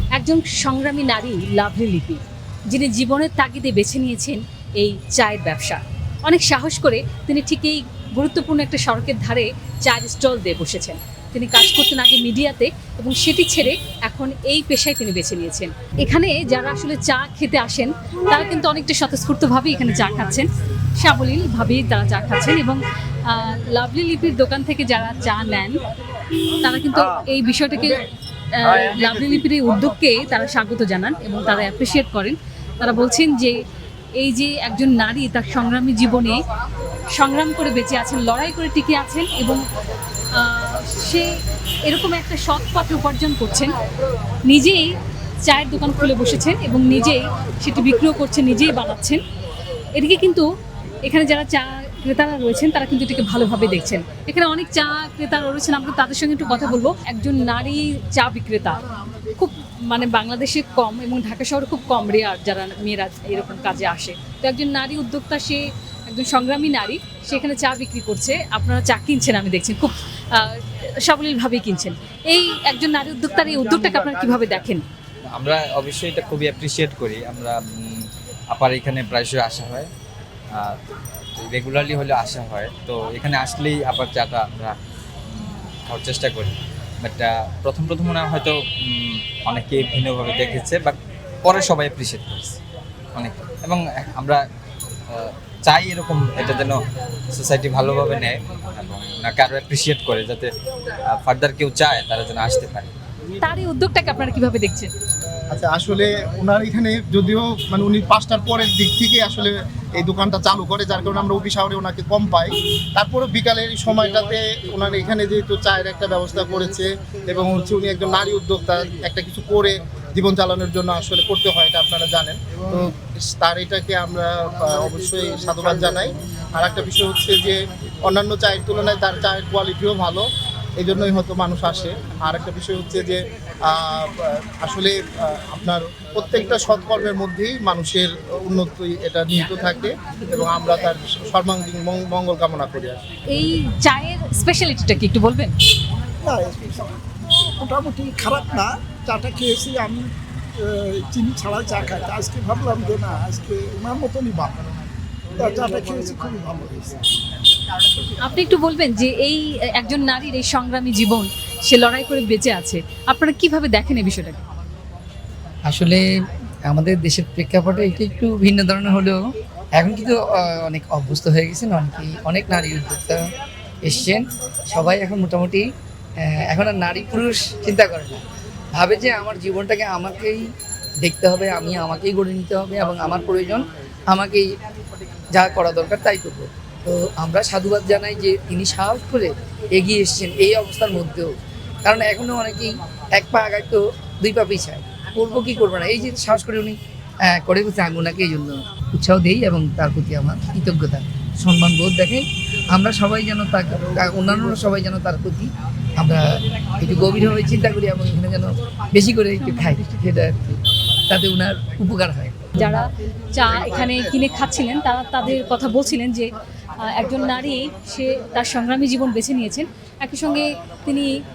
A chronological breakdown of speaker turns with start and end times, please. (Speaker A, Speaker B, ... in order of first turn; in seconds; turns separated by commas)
Speaker A: 0.1-25.8, Speaker A: 26.6-28.0, Speaker A: 28.5-33.6, Speaker A: 34.2-36.4, Speaker A: 37.1-39.6, Speaker A: 40.3-41.3, Speaker A: 41.9-43.8, Speaker A: 44.5-44.9, Speaker A: 45.4-49.2, Speaker A: 50.0-50.5, Speaker A: 51.1-58.8, Speaker A: 59.3-74.8, Speaker B: 75.3-79.9, Speaker B: 81.4-84.8, Speaker B: 85.3-92.6, Speaker B: 93.1-94.4, Speaker B: 95.1-96.8, Speaker B: 97.3-100.5, Speaker B: 101.1-102.9, Speaker A: 103.4-104.9, Speaker C: 105.5-130.3, Speaker C: 130.8-143.0, Speaker A: 143.3-145.5, Speaker D: 146.2-154.6, Speaker D: 155.3-157.0, Speaker A: 158.2-164.4, Speaker E: 165.7-166.1, Speaker E: 166.7-169.2, Speaker E: 169.7-173.3, Speaker E: 173.8-175.7, Speaker E: 176.2-178.2, Speaker E: 178.8-180.4, Speaker E: 181.0-184.5, Speaker E: 185.3-212.5, Speaker A: 209.4-209.9, Speaker A: 212.6-221.1